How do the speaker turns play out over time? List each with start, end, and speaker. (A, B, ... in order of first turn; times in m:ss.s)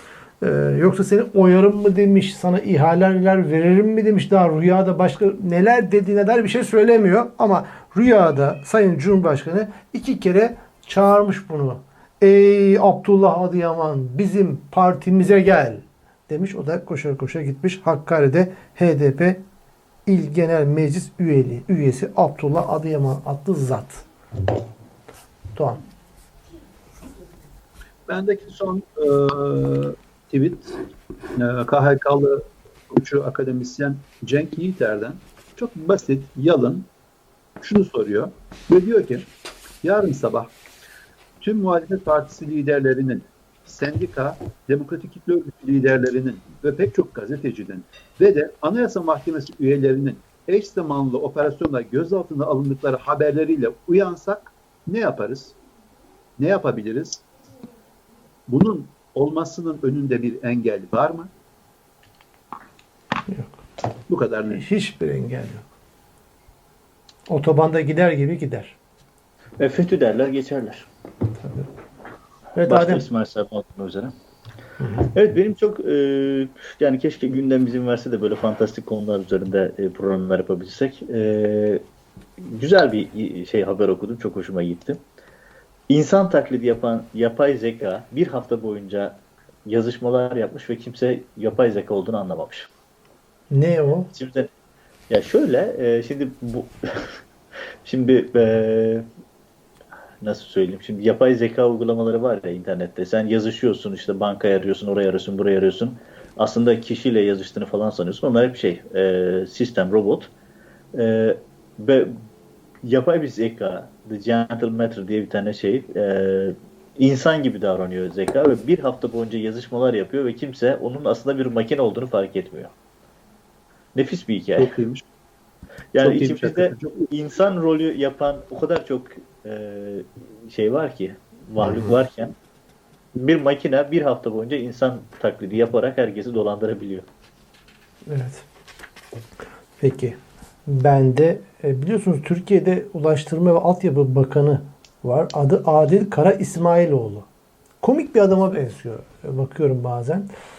0:00.4-0:19.4 A
0:20.1-0:24.0 A
0:25.6-0:25.8 A
0:28.1-0:30.8 B
0:31.4-0:36.9 B
0:37.6-0:39.3 B
0:39.8-0:40.5 B
0:41.4-0:55.6 B
0:56.4-0:57.2 B
0:58.5-1:01.3 B
1:03.3-1:03.6 A
1:04.1-1:04.6 B
1:04.5-1:05.6 A
1:07.3-1:08.8 A
1:09.6-1:10.9 C
1:11.4-1:11.7 A
1:12.6-1:13.0 A
1:12.7-1:14.1 C
1:14.8-1:15.1 A
1:15.1-1:21.8 C
1:22.4-1:25.0 C
1:25.9-1:32.7 C
1:33.5-1:34.1 A
1:34.1-1:34.5 C
1:35.1-1:37.2 C
1:37.8-1:39.1 C
1:40.2-1:50.3 C
1:50.9-1:52.2 C
1:52.8-2:02.7 C
2:04.0-2:04.7 C
2:04.6-2:05.0 B
2:05.9-2:12.3 C
2:06.0-2:07.1 B
2:11.6-2:12.0 A
2:13.2-2:17.0 C
2:18.1-2:18.4 A
2:19.8-2:27.3 A
2:27.8-2:30.3 A